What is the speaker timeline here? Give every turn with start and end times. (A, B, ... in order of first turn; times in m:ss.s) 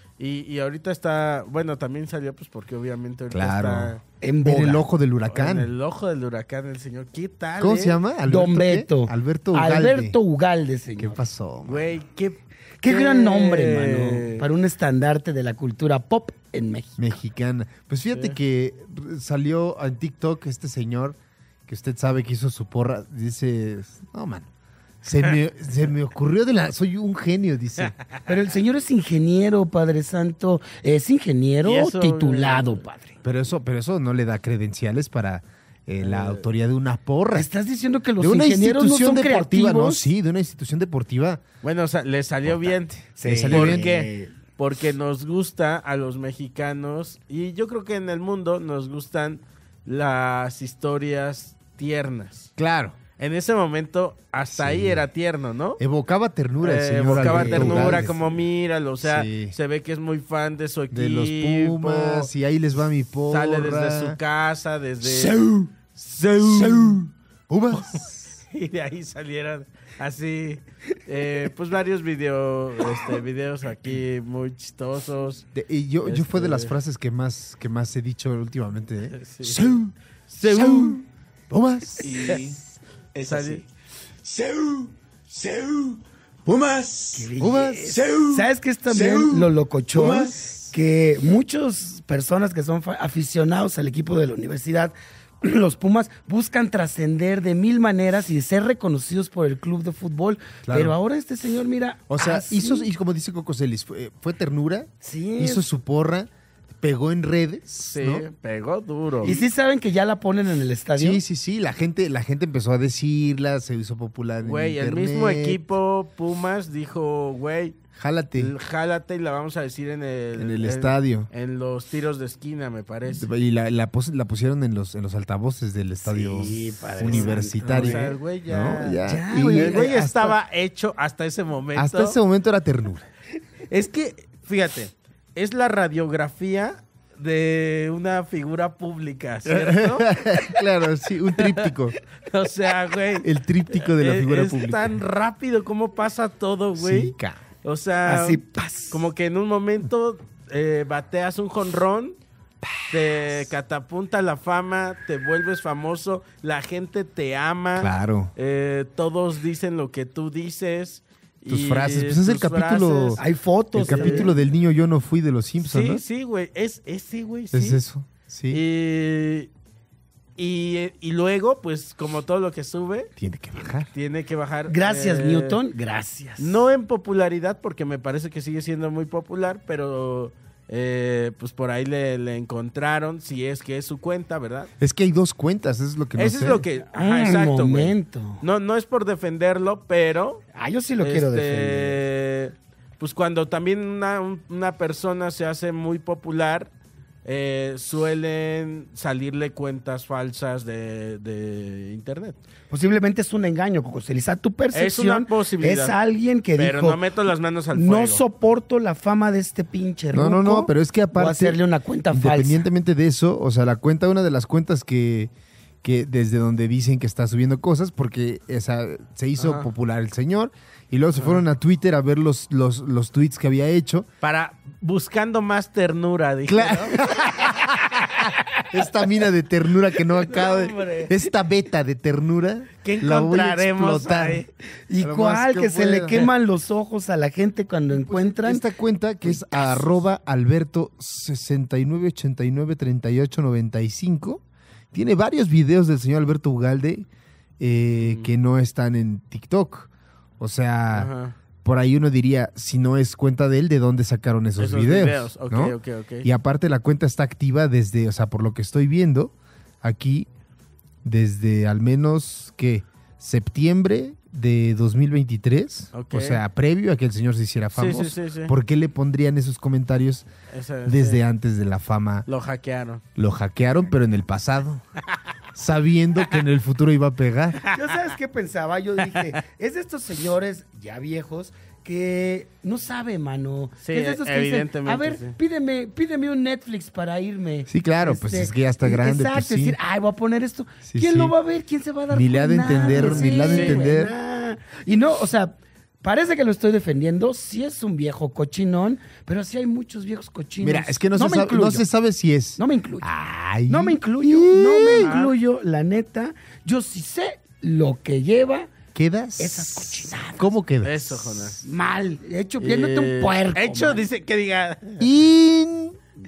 0:00.2-0:04.0 A
0:03.3-0:05.7 B
0:04.2-0:04.9 C
0:05.3-0:08.0 A
0:07.6-0:10.2 B
0:08.3-0:11.2 C
0:11.0-0:11.9 B
0:11.7-0:14.5 A
0:12.8-0:17.1 C
0:17.0-0:24.5 B
0:25.0-0:28.0 B
0:28.3-0:33.2 C
0:31.6-0:32.8 A
0:33.2-0:37.5 B
0:36.0-0:36.4 A
0:37.3-0:40.1 C
0:38.2-0:41.4 B
0:41.6-0:52.5 A
0:42.5-0:43.8 B
0:43.2-0:44.3 C
0:52.6-0:53.0 B
0:53.2-0:55.8 A
0:54.5-0:55.1 B
0:55.8-0:58.3 B
0:56.6-1:02.3 A
0:59.0-0:59.6 B
1:00.9-1:04.2 B
1:03.3-1:07.0 A
1:05.0-1:05.7 B
1:06.4-1:08.4 B
1:07.7-1:15.5 A
1:15.6-1:22.2 B
1:16.1-1:16.7 A
1:19.1-1:21.0 A
1:22.0-1:22.6 D
1:23.1-1:23.6 D
1:23.2-1:23.6 A
1:24.2-1:30.6 D
1:27.1-1:42.9 C
1:27.4-1:28.0 B
1:40.6-1:41.0 B
1:42.1-1:46.3 B
1:45.0-1:45.7 C
1:46.8-1:48.3 B
1:47.9-1:49.4 A
1:49.2-1:51.2 C
1:51.0-1:55.6 B
1:54.4-1:57.8 A
1:58.0-1:58.6 B
1:58.4-2:03.3 A
2:00.4-2:01.3 B
2:03.1-2:10.4 B
2:06.0-2:12.2 A
2:06.2-2:08.2 C
2:09.0-2:10.0 C
2:11.8-2:13.1 B
2:13.7-2:20.4 A
2:19.5-2:22.0 B
2:21.4-2:32.2 A
2:23.2-2:25.0 B
2:26.8-2:27.4 B
2:28.0-2:29.1 C
2:32.6-2:33.1 B
2:32.9-2:43.2 A
2:37.8-2:38.3 B
2:41.5-2:43.2 B
2:43.2-2:44.3 C
2:43.8-2:46.0 B
2:43.8-2:44.3 A
2:45.6-2:47.8 A
2:47.5-2:48.6 B
2:48.5-2:49.5 A
2:50.4-2:53.1 A
2:53.2-2:53.9 B
2:53.8-2:55.6 A
2:54.7-2:56.7 C
2:56.4-3:04.7 A
3:04.8-3:06.7 B
3:06.2-3:10.4 A
3:06.9-3:08.4 C
3:10.5-3:12.0 C
3:11.0-3:16.7 A
3:17.2-3:22.4 A
3:22.7-3:27.0 C
3:24.7-3:26.0 A
3:26.6-3:28.2 A
3:27.7-3:32.6 C
3:30.1-3:31.6 B
3:32.1-3:35.3 B
3:35.8-3:44.1 B
3:39.4-3:39.7 A
3:44.2-3:48.2 A
3:46.5-3:54.4 B
3:50.2-3:51.2 A
3:52.8-3:54.5 A
3:54.9-3:58.6 C
3:55.0-3:56.3 B
3:58.1-4:04.4 B
4:04.9-4:07.1 B
4:07.6-4:11.1 B
4:08.0-4:08.3 A
4:10.9-4:11.4 A
4:11.6-4:20.3 B
4:14.6-4:16.3 A
4:21.0-4:30.3 B
4:25.9-4:26.4 A
4:27.7-4:28.5 A
4:30.5-4:31.2 A
4:30.9-4:32.3 B
4:32.3-4:33.0 A
4:33.2-4:34.8 B
4:35.6-4:37.6 B
4:37.7-4:38.0 A
4:37.7-5:01.8 C
4:43.8-4:45.4 A
4:47.7-4:49.8 B
4:50.9-4:51.3 B
4:52.1-4:54.1 B
4:52.7-4:53.9 A
5:00.6-5:05.1 B
5:02.6-5:03.1 C
5:03.7-5:08.7 C
5:04.9-5:05.4 A
5:08.9-5:11.6 B
5:09.4-5:10.5 C
5:10.8-5:11.6 A
5:11.6-5:14.0 C
5:12.6-5:15.0 A
5:15.0-5:16.0 B